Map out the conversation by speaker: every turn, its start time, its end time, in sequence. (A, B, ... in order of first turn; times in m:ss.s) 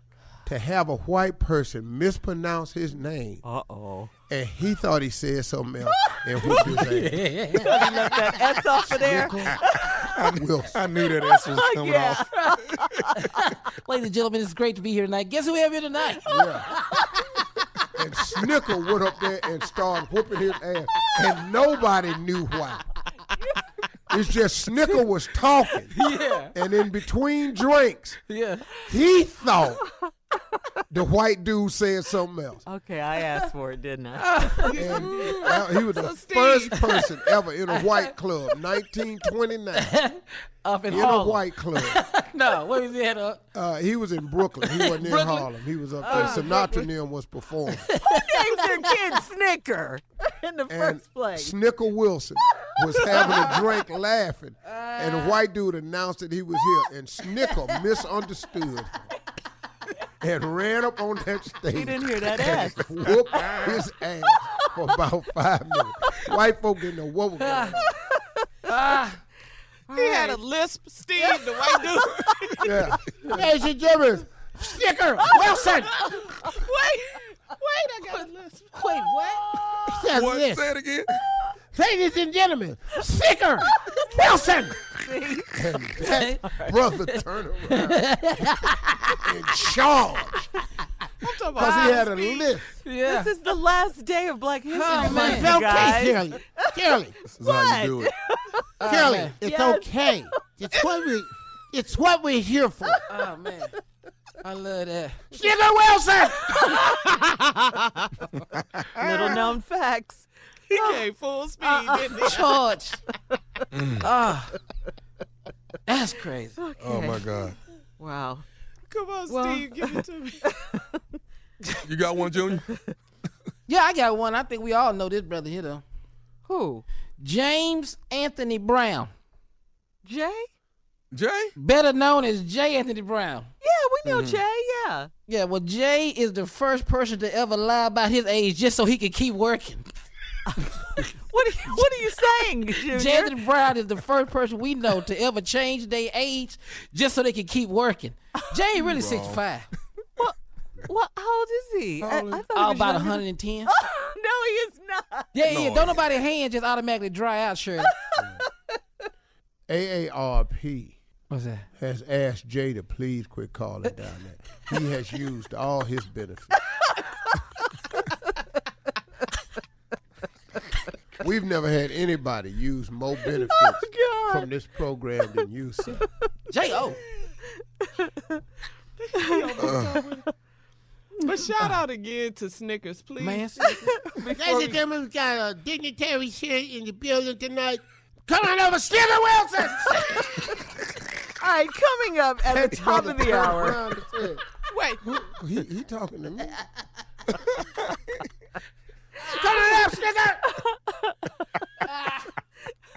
0:00.4-0:03.4 A
0:03.4-0:04.1 B
0:04.3-0:07.6 A
0:05.9-0:06.6 B
0:06.5-0:07.7 C
0:07.6-0:10.0 B
0:08.9-0:09.6 A
0:10.0-0:12.7 D
0:10.4-0:10.8 A
0:11.4-0:13.4 B
0:13.2-0:17.6 C
0:16.3-0:16.7 A
0:17.9-0:22.9 A
0:24.1-0:26.0 A
0:25.9-0:26.6 C
0:26.5-0:28.2 A
0:28.3-0:28.8 C
0:28.8-0:29.8 A
0:30.9-0:32.6 A
0:32.7-0:35.0 B
0:34.2-0:35.5 C
0:34.6-0:37.2 E
0:34.7-0:40.0 A
0:37.7-0:38.1 C
0:39.7-0:43.4 C
0:40.9-0:42.0 A
0:40.9-0:41.4 B
0:43.5-0:47.9 A
0:44.7-0:46.8 C
0:47.7-0:48.9 C
0:48.1-0:51.5 B
0:50.7-0:59.1 A
0:53.1-0:53.6 B
0:54.7-0:55.4 C
1:00.2-1:07.9 A
1:01.7-1:03.1 B
1:07.8-1:08.5 B
1:08.6-1:09.2 C
1:09.9-1:10.4 B
1:09.9-1:12.8 E
1:11.2-1:12.9 B
1:12.6-1:15.9 A
1:15.2-1:15.6 B
1:15.2-1:19.0 E
1:18.0-1:19.4 C
1:19.9-1:20.6 A
1:20.0-1:21.1 D
1:21.7-1:24.8 A
1:25.0-1:25.6 B
1:25.5-1:28.1 A
1:26.0-1:29.2 C
1:29.2-1:30.5 A
1:31.2-1:32.5 E
1:31.6-1:32.7 A
1:31.6-1:32.0 B
1:32.8-1:33.3 C
1:33.0-1:36.8 B
1:34.7-1:35.7 C
1:34.9-1:37.1 A
1:37.3-1:38.1 D
1:37.4-1:38.8 B
1:38.8-1:39.4 C
1:38.8-1:43.0 A
1:39.4-1:40.2 B
1:43.1-1:43.8 C
1:44.4-1:46.7 C
1:45.3-1:46.8 A
1:46.5-1:47.1 B
1:49.0-1:51.0 B
1:50.7-1:52.5 E
1:51.6-1:52.4 B
1:52.2-1:53.0 C
1:53.7-1:54.0 D
1:54.0-1:54.6 C
1:55.9-1:56.6 C
1:56.6-1:57.2 B
1:56.8-1:57.6 D
1:58.0-1:58.4 B
1:58.9-2:00.5 E
1:59.3-2:01.0 B
2:01.8-2:02.7 D
2:03.7-2:05.8 C
2:06.5-2:06.8 B
2:07.2-2:09.1 C
2:10.0-2:10.5 B
2:11.1-2:11.5 D
2:11.6-2:13.5 C
2:13.6-2:15.1 B
2:15.3-2:19.9 C
2:20.5-2:23.4 B
2:22.9-2:29.7 C
2:28.8-2:29.4 D
2:30.2-2:35.3 B
2:32.0-2:32.4 D
2:32.6-2:33.7 C
2:35.3-2:37.9 C
2:35.5-2:36.0 D
2:37.8-2:38.3 B
2:39.7-2:41.0 A
2:41.3-2:41.7 C
2:41.7-2:46.6 A
2:51.2-2:56.0 A
2:53.4-2:54.5 B
2:56.5-2:57.0 C
2:57.8-2:58.4 B
2:59.0-3:00.2 E
2:59.1-3:00.3 B
2:59.6-2:59.9 D
3:01.2-3:04.0 E
3:03.2-3:03.9 C
3:03.6-3:04.8 B
3:04.4-3:10.4 A
3:11.4-3:13.8 B
3:12.5-3:14.4 A
3:14.7-3:15.0 E
3:15.0-3:16.6 A
3:19.3-3:20.4 A
3:19.3-3:21.4 B
3:21.8-3:22.2 C